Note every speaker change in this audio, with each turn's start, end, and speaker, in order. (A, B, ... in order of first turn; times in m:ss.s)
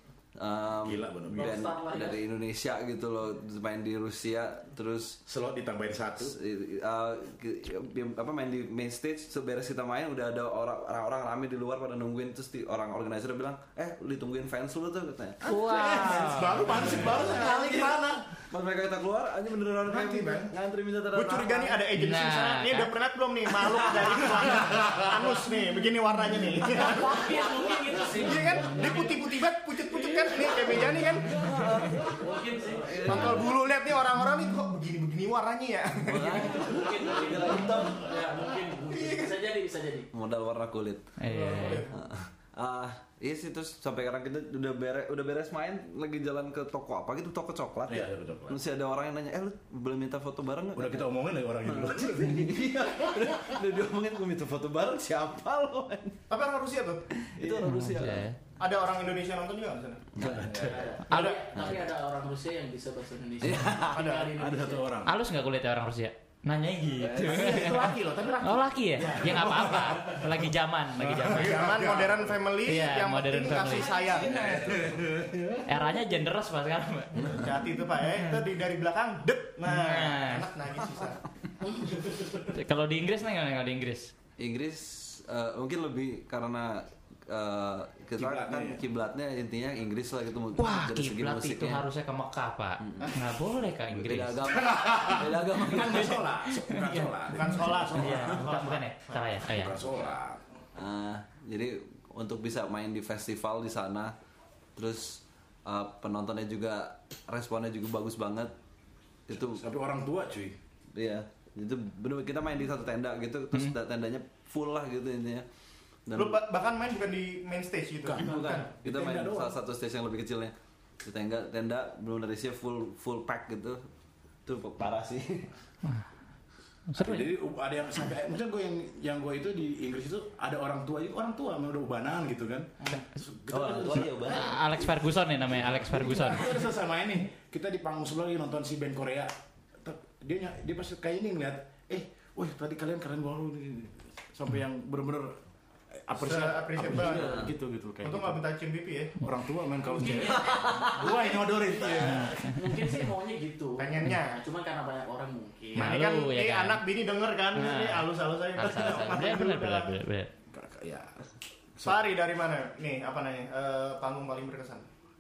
0:00.4-0:05.2 A
0:00.8-0:01.6 B
0:01.3-0:02.2 C
0:05.3-0:06.4 B
0:06.2-0:15.5 A
0:15.4-0:16.8 D
0:15.4-0:18.2 B
0:16.7-0:18.0 A
0:18.5-0:21.8 A
0:19.8-0:20.5 B
0:21.1-0:27.2 E
0:21.9-0:22.9 D
0:24.7-0:25.1 B
0:26.8-0:29.2 C
0:28.2-0:31.3 E
0:30.2-0:33.4 C
0:31.2-0:33.5 A
0:33.0-0:36.6 E
0:36.1-0:38.1 A
0:36.3-0:40.1 C
0:40.1-0:41.2 A
0:41.2-0:41.9 D
0:41.3-0:41.9 E
0:41.9-0:51.1 A
0:47.9-0:48.6 B
0:50.8-0:53.3 B
0:51.6-0:56.2 A
0:56.3-0:57.1 E
0:57.3-0:58.3 A
0:57.6-0:58.4 D
0:58.6-1:00.0 E
1:00.2-1:00.7 A
1:00.2-1:00.8 B
1:00.6-1:05.0 C
1:01.1-1:01.4 E
1:01.6-1:01.9 A
1:03.4-1:03.8 A
1:03.4-1:05.2 B
1:03.9-1:04.3 E
1:05.0-1:11.8 D
1:07.1-1:12.4 B
1:11.4-1:14.4 E
1:12.6-1:14.0 D
1:13.7-1:14.6 C
1:14.2-1:15.0 A
1:14.3-1:15.8 B
1:15.7-1:17.4 D
1:17.3-1:21.2 E
1:18.1-1:18.4 D
1:19.6-1:20.5 D
1:21.6-1:22.0 C
1:22.5-1:24.1 D
1:24.4-1:31.8 A
1:28.2-1:28.8 B
1:30.6-1:34.4 D
1:32.8-1:33.1 A
1:33.9-1:36.2 A
1:34.4-1:38.5 B
1:36.6-1:39.8 D
1:37.3-1:39.2 E
1:39.4-1:40.4 B
1:40.8-1:44.1 A
1:44.8-1:48.5 A
1:49.3-1:49.6 A
1:49.3-1:50.6 B
1:51.0-1:55.5 A
1:56.1-1:56.4 A
1:56.2-1:58.7 E
1:58.0-1:59.6 B
1:58.2-2:03.8 A
2:04.5-2:05.5 A
2:06.9-2:07.3 D
2:07.0-2:14.8 B
2:13.5-2:14.6 A
2:14.3-2:16.6 D
2:15.7-2:25.4 B
2:26.1-2:28.4 B
2:26.1-2:27.4 E
2:27.1-2:27.5 A
2:28.0-2:29.1 E
2:29.2-2:32.4 B
2:29.9-2:36.0 C
2:30.4-2:30.9 A
2:32.4-2:32.8 D
2:33.8-2:34.4 E
2:35.8-2:39.9 E
2:35.8-2:36.8 D
2:37.5-2:40.3 D
2:38.6-2:39.1 B
2:40.5-2:41.2 B
2:41.8-2:42.1 B
2:41.8-2:44.9 E